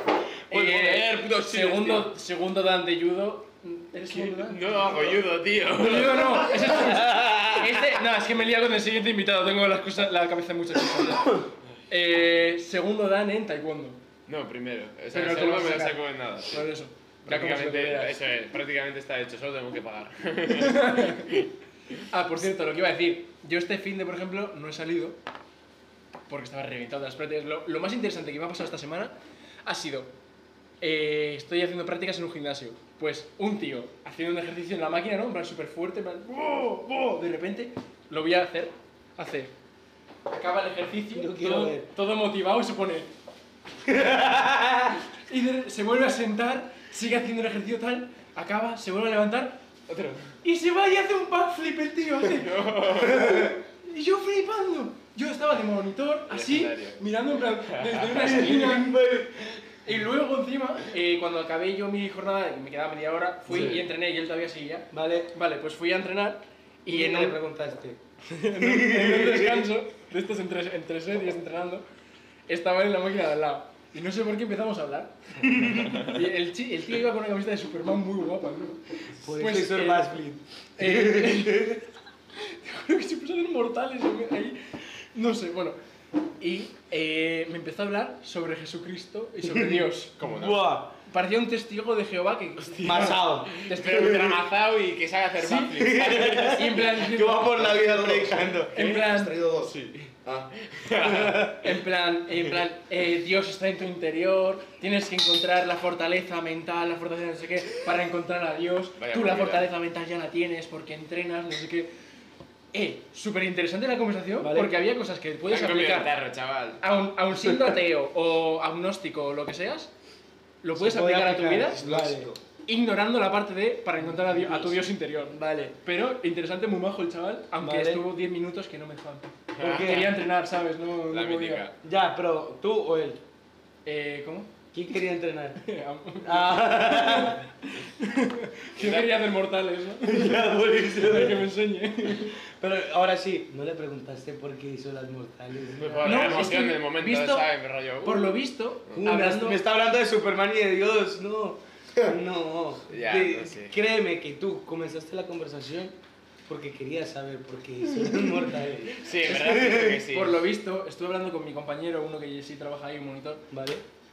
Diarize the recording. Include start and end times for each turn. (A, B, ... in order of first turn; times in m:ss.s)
0:00.5-0:02.1 A
0:00.5-0:05.2 B
0:04.1-0:06.8 A
0:05.8-0:14.0 B
0:07.1-0:07.4 C
0:14.3-0:16.7 A
0:15.1-0:18.2 B
0:17.2-0:21.4 A
0:20.5-0:21.3 B
0:22.1-0:25.2 B
0:26.3-0:30.1 B
0:30.8-0:39.5 B
0:40.3-0:43.1 B
0:41.1-0:41.9 C
0:43.9-0:45.0 C
0:45.3-0:49.6 B
0:49.9-0:50.3 A
0:50.4-0:59.2 B
0:52.2-0:53.5 A
0:53.1-0:53.4 C
0:56.3-0:57.0 A
0:57.7-0:58.3 A
0:58.1-0:59.6 C
0:59.8-1:07.4 B
1:03.5-1:03.8 D
1:03.5-1:03.8 C
1:04.9-1:05.3 C
1:06.9-1:08.0 C
1:08.3-1:11.8 B
1:08.6-1:09.7 C
1:12.5-1:20.1 B
1:15.6-1:16.0 C
1:19.2-1:21.8 C
1:20.8-1:21.8 B
1:22.4-1:25.8 B
1:26.4-1:30.1 B
1:29.5-1:30.9 C
1:30.2-1:30.8 A
1:31.0-1:34.3 B
1:32.8-1:34.3 C
1:33.6-1:36.8 A
1:35.4-1:37.6 B
1:35.8-1:38.7 C
1:37.5-1:40.5 D
1:38.7-1:39.3 B
1:39.6-1:41.7 A
1:41.0-1:41.5 C
1:41.4-1:51.9 B
1:49.0-1:49.7 A
1:52.7-1:56.1 B
1:54.4-1:54.7 C
1:55.5-1:56.8 A
1:56.8-1:59.9 B
2:00.6-2:01.8 B
2:00.8-2:02.3 C
2:01.8-2:02.4 D
2:02.6-2:11.6 B
2:04.1-2:05.7 C
2:07.6-2:08.0 C
2:09.5-2:10.2 A
2:09.6-2:10.2 C
2:11.1-2:11.8 A
2:11.8-2:13.2 C
2:13.8-2:14.5 B
2:14.7-2:15.6 C
2:15.6-2:20.4 B
2:16.2-2:17.4 C
2:18.8-2:19.2 A
2:20.0-2:21.5 C
2:21.0-2:22.3 B
2:22.6-2:26.6 C
2:25.8-2:28.4 A
2:26.0-2:27.5 B
2:28.0-2:29.6 B
2:28.9-2:35.9 C
2:32.9-2:33.7 A
2:36.5-2:40.0 C
2:39.0-2:40.4 A
2:40.1-2:43.5 B
2:43.5-2:43.8 C